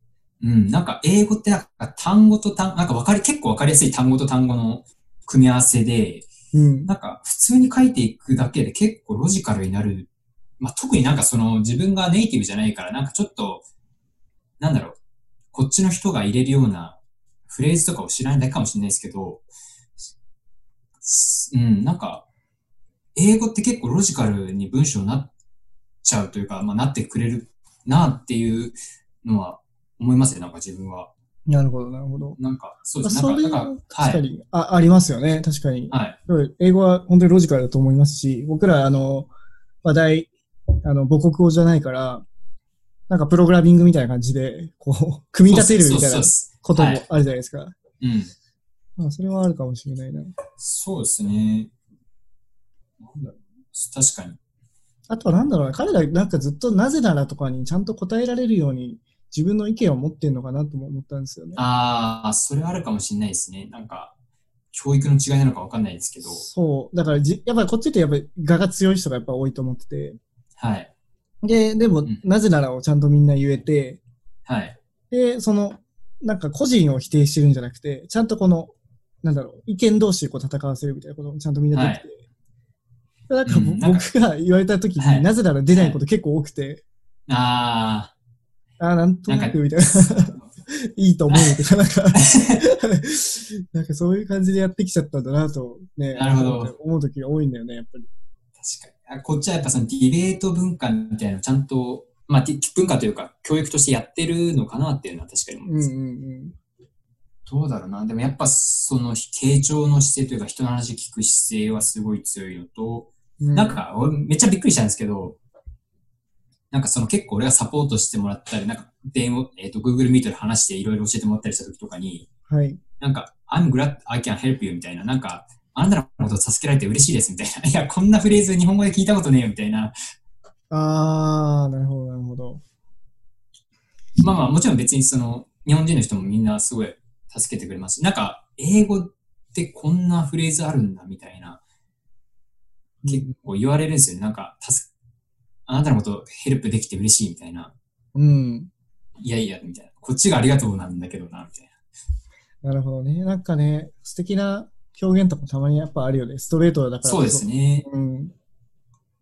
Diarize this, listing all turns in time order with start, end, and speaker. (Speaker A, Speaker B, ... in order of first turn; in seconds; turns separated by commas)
Speaker A: 0.4-6.3, Speaker B: 6.5-6.9, Speaker A: 6.9-13.6, Speaker A: 14.6-15.0, Speaker A: 15.5-19.4, Speaker A: 21.0-22.2, Speaker A: 23.1-25.3, Speaker A: 26.0-31.1, Speaker B: 31.5-32.4, Speaker A: 32.4-34.2, Speaker B: 33.0-39.3, Speaker A: 35.9-36.2, Speaker B: 39.8-40.3, Speaker B: 40.8-42.2, Speaker B: 43.1-47.8, Speaker A: 45.5-47.0, Speaker A: 48.0-48.3, Speaker B: 49.0-50.3, Speaker A: 50.6-51.7, Speaker A: 53.0-54.4, Speaker B: 55.1-61.6, Speaker A: 61.6-64.1, Speaker A: 64.7-66.4, Speaker B: 66.2-70.2, Speaker A: 70.6-70.9, Speaker B: 71.4-74.0, Speaker A: 74.5-74.8, Speaker B: 75.1-82.2, Speaker A: 81.7-82.0, Speaker B: 83.3-86.8, Speaker A: 83.5-84.1, Speaker A: 85.0-86.0, Speaker A: 87.3-88.1, Speaker B: 88.8-98.1, Speaker A: 89.3-90.5, Speaker A: 91.3-91.6, Speaker A: 92.1-92.6, Speaker A: 96.1-96.7, Speaker A: 98.6-105.9, Speaker B: 105.6-106.5, Speaker A: 107.5-115.4, Speaker B: 113.4-113.8, Speaker A: 116.7-122.3, Speaker B: 122.5-122.8, Speaker A: 123.0-129.9, Speaker B: 130.7-132.6, Speaker A: 134.2-141.6, Speaker B: 143.0-143.4, Speaker A: 143.1-144.9, Speaker A: 145.7-147.7, Speaker B: 148.1-148.7, Speaker A: 149.2-151.7, Speaker B: 152.6-158.3, Speaker A: 157.0-157.8